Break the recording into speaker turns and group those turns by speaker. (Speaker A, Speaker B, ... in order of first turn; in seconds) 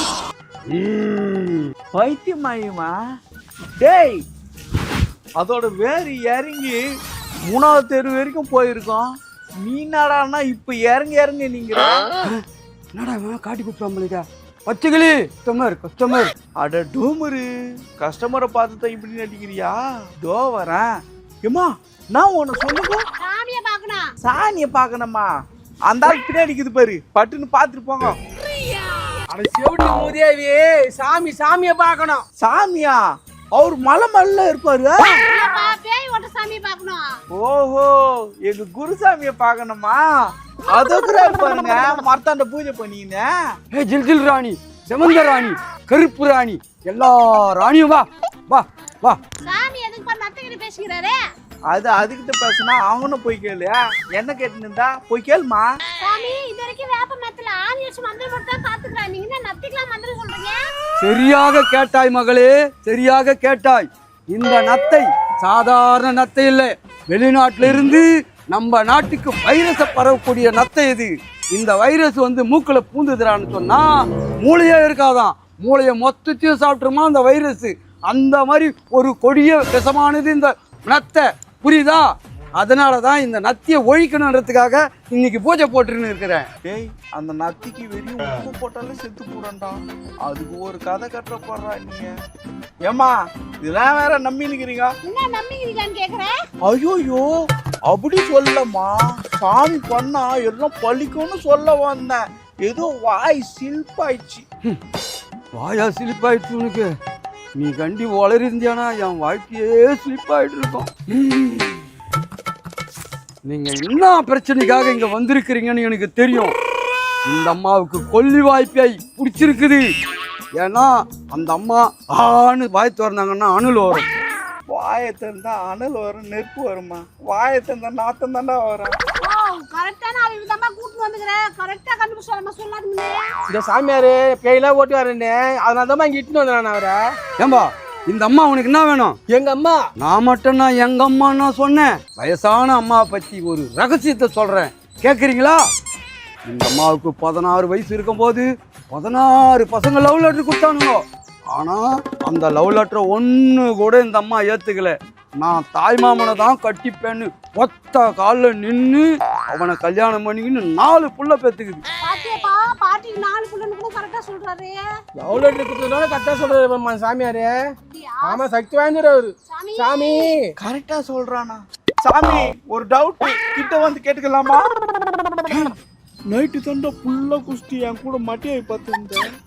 Speaker A: 0.7-1.7, 12.9-16.3, 43.7-49.2, 61.0-73.9, 74.4-82.1, 82.6-86.5, 105.5-106.9, 107.6-111.8, 113.5-116.5, 117.3-119.8, 120.6-124.1, 137.4-139.2, 140.0-145.6, 146.5-151.0, 151.5-161.8
Speaker B: 1.9-2.9, 3.8-4.2, 5.4-6.8, 7.5-9.1, 9.6-12.1, 16.6-17.5, 18.0-20.9, 21.4-23.0, 24.2-25.3, 25.9-28.2, 32.4-33.0, 33.5-35.2, 37.4-40.0, 40.7-43.3, 51.7-55.7, 86.7-92.1, 92.9-94.9, 96.7-97.3, 97.9-104.5, 124.7-129.0, 170.6-174.7, 176.3-179.2
Speaker C: 23.2-24.1, 28.6-29.1, 35.3-37.0, 49.4-51.2, 56.0-60.6, 95.0-96.4, 129.2-133.3, 162.0-164.8, 167.9-168.4, 169.5-170.3
Speaker D: 29.3-32.2, 133.5-137.0, 139.3-139.8, 165.2-167.6, 168.2-170.5